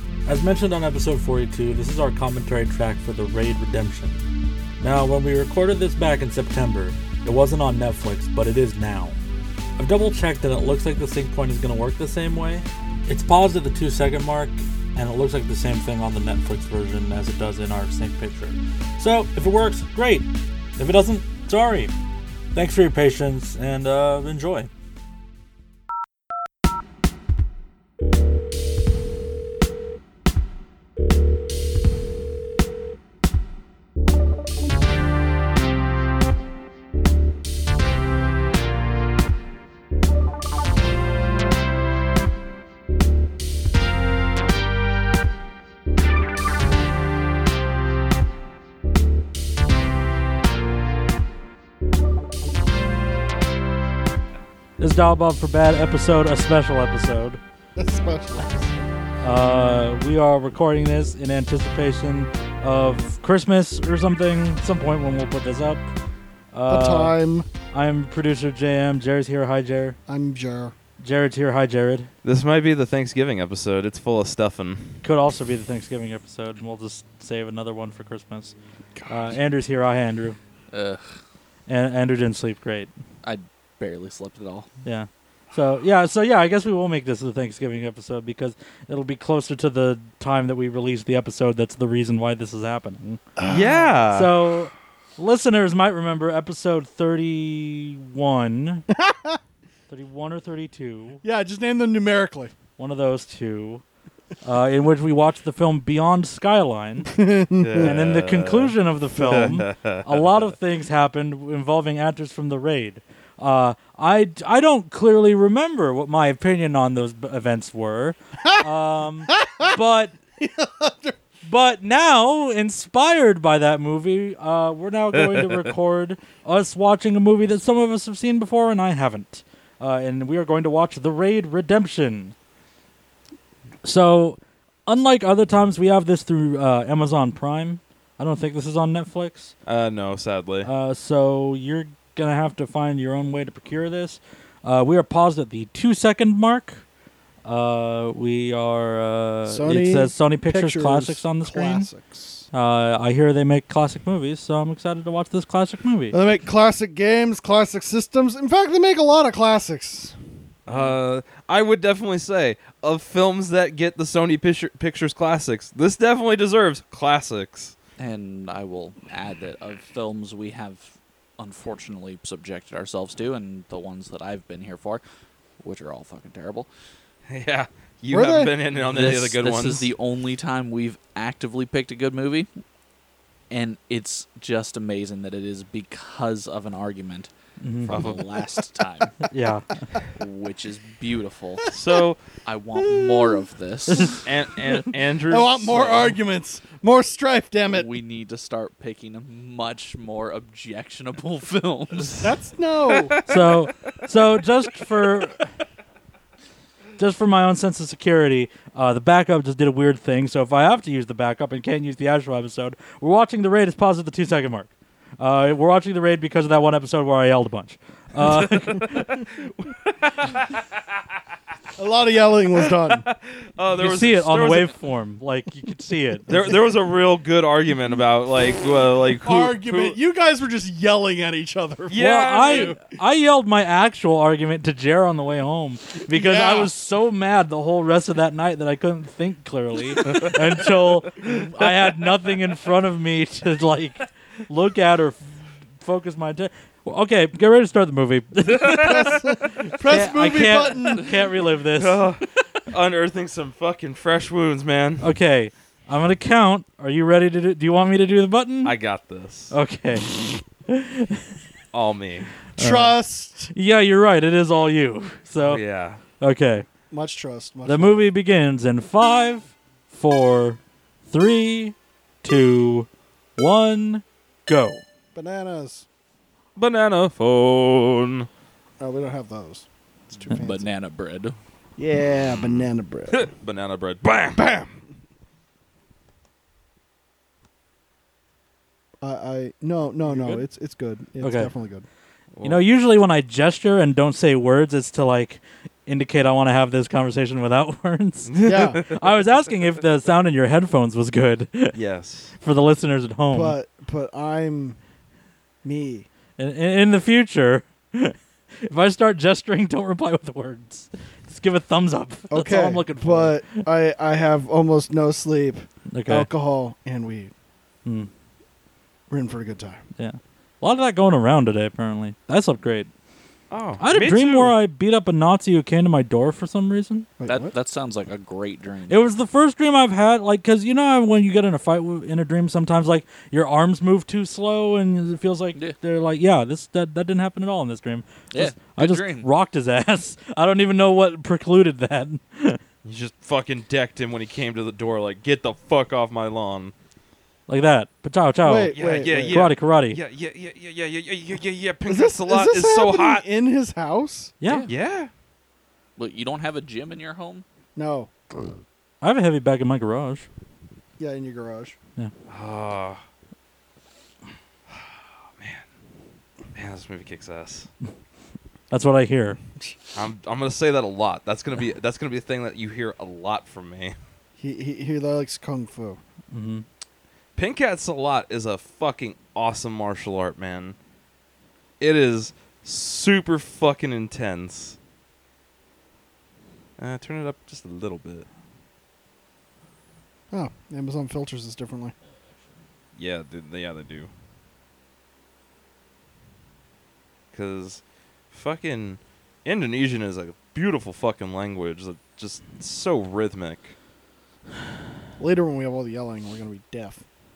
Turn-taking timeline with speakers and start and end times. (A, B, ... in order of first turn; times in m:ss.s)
0:00.3-0:04.2 A
0:04.8-0:09.2 A
0:09.8-0:21.9 A
0:22.5-0:24.7 A
0:54.8-0:57.4 A
0:57.8-0:58.9 B
0:59.2-1:05.9 A
1:06.5-1:07.2 A
1:06.7-1:07.5 B
1:07.7-1:10.0 A
1:10.1-1:10.7 B
1:11.0-1:12.1 A
1:12.2-1:15.0 C
1:15.0-1:18.6 A
1:19.1-1:20.4 A
1:20.7-1:21.0 D
1:21.7-1:22.9 A
1:23.2-1:24.7 D
1:24.8-1:33.2 A
1:33.4-1:34.1 B
1:33.5-1:34.3 C
1:34.1-1:38.9 A
1:38.9-1:39.4 B
1:39.9-1:41.2 A
1:41.2-1:42.5 B
1:42.8-1:43.8 A
1:44.4-1:47.1 A
1:47.1-1:48.0 B
1:47.6-1:50.2 C
1:47.8-2:00.2 A
1:59.3-1:59.8 B
2:00.4-2:01.2 B
2:01.4-2:12.4 A
2:05.1-2:05.7 C
2:13.8-2:19.5 A
2:19.6-2:20.7 C
2:20.6-2:26.8 A
2:27.4-2:31.9 A
2:29.5-2:32.5 B
2:32.5-2:36.2 A
2:36.1-2:40.2 B
2:40.7-2:47.8 C
2:48.0-2:55.0 D
2:55.6-2:56.7 D
2:57.3-2:59.9 C
2:58.1-2:58.5 B
2:58.8-3:02.5 D
3:03.5-3:07.3 D
3:07.6-3:08.1 A
3:07.9-3:09.3 D
3:07.9-3:08.2 C
3:09.2-3:09.9 A
3:10.1-3:11.7 D
3:11.7-3:12.2 C
3:12.4-3:14.3 D
3:12.8-3:13.5 B
3:13.9-3:14.2 A
3:14.2-3:16.1 C
3:15.3-3:17.9 B
3:17.7-3:22.3 D
3:22.2-3:23.2 B
3:22.9-3:23.7 C
3:23.3-3:25.5 A
3:27.0-3:39.2 A
3:38.2-3:41.0 C
3:41.8-3:43.0 B
3:42.6-3:44.7 C
3:43.8-3:46.3 A
3:46.3-3:46.6 B
3:46.3-3:50.0 C
3:49.2-3:52.8 B
3:51.9-3:52.8 C
3:51.9-4:12.1 A
3:56.1-3:56.7 B
4:00.1-4:00.4 C
4:08.5-4:09.4 C
4:08.8-4:11.2 B
4:11.8-4:15.1 C
4:15.0-4:18.7 A
4:18.6-4:19.5 C
4:19.5-4:21.3 A
4:21.7-4:22.4 C
4:22.6-4:23.0 A
4:22.6-4:23.5 B
4:23.5-4:25.6 A
4:25.4-4:26.0 C
4:26.2-4:26.7 A
4:26.9-4:28.0 B
4:27.6-4:34.8 A
4:35.1-4:35.9 B
4:36.6-4:38.3 C
4:38.8-4:40.7 B
4:40.3-4:41.4 D
4:41.8-4:43.2 B
4:42.2-4:44.4 C
4:44.4-4:44.8 B
4:49.0-4:51.9 B
4:50.1-4:50.4 C
4:51.2-4:51.5 A
4:52.3-4:52.6 C
4:52.4-5:01.8 A
4:58.3-4:59.0 C
4:58.4-4:58.9 B
5:01.7-5:02.4 C
5:02.4-5:03.6 A
5:03.3-5:04.8 B
5:05.6-5:06.1 B
5:06.4-5:13.7 A
5:12.3-5:17.3 B
5:15.9-5:16.3 A
5:17.8-5:18.1 A
5:19.1-5:19.8 B
5:20.0-5:22.9 A
5:23.5-5:24.5 C
5:23.8-5:27.1 A
5:27.2-5:27.5 B
5:27.3-5:29.0 D
5:28.9-5:42.6 A
5:38.3-5:39.3 D
5:42.8-5:46.7 C
5:47.5-5:50.0 A
5:48.4-5:49.4 B
5:48.7-5:53.2 C
5:51.9-5:54.3 B
5:54.4-5:54.7 A
5:54.4-5:54.7 D
5:54.7-5:55.1 C
5:56.0-5:57.4 D
5:57.8-5:58.1 B
5:59.0-6:00.3 A
6:01.0-6:01.8 B
6:02.3-6:03.0 C
6:04.7-6:05.6 C
6:06.5-6:07.7 C
6:08.7-6:09.4 A
6:09.9-6:14.0 C
6:14.4-6:16.0 B
6:16.3-6:16.6 A
6:17.4-6:20.8 C
6:21.8-6:24.8 C
6:26.8-6:28.3 C
6:30.3-6:32.0 B
6:33.0-6:34.1 C
6:37.3-6:43.8 C
6:45.2-6:47.0 B